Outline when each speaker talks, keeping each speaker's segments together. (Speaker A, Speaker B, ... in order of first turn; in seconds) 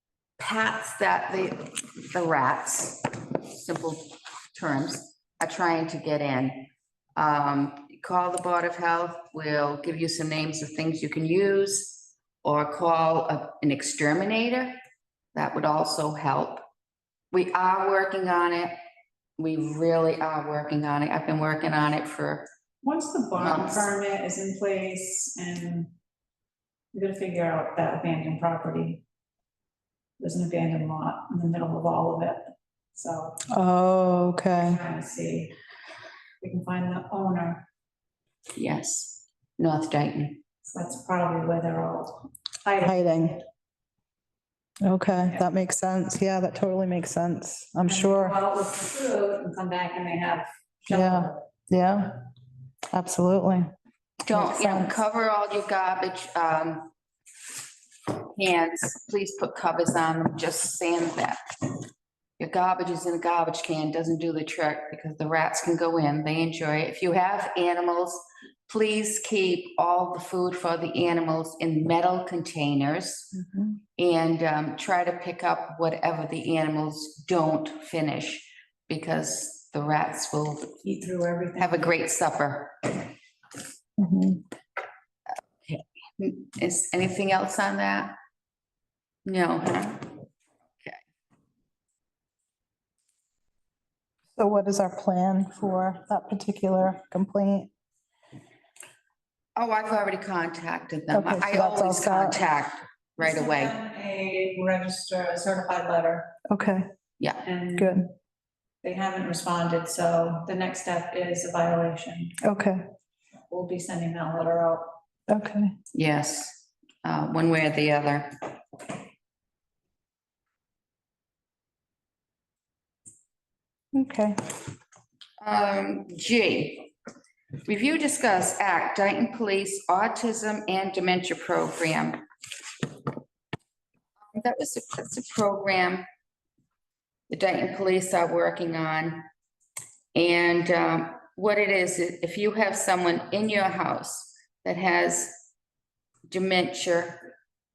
Speaker A: 0.4-14.8, 15.3-16.6, 17.3-18.7, 19.4-22.5, 23.4-23.9, 38.6-40.4, 54.2-56.9, 58.1-61.4, 62.4-73.3, 74.0-80.7, 81.6-82.9, 85.6-88.1, 89.3-90.1, 99.6-103.8, 115.9-118.3, 125.4-126.9, 127.7-132.2, 134.3-136.0, 137.3-139.2, 140.1-145.5, 146.3-147.3
Speaker B: 22.8-25.9, 26.9-29.0, 30.2-33.4, 34.6-35.5, 36.4-37.6, 40.7-43.4, 47.9-51.4, 80.8-81.8, 103.2-106.3, 107.5-108.0, 108.8-112.4, 113.5-114.9
Speaker C: 33.5-34.8, 42.8-43.4, 44.8-48.4, 50.9-52.2, 52.9-53.7, 54.3-55.0, 73.3-73.8, 84.0-84.4, 94.4-97.7, 101.1-102.4, 106.5-106.9, 107.8-108.1, 112.4-112.8, 115.3-115.7, 123.9-124.4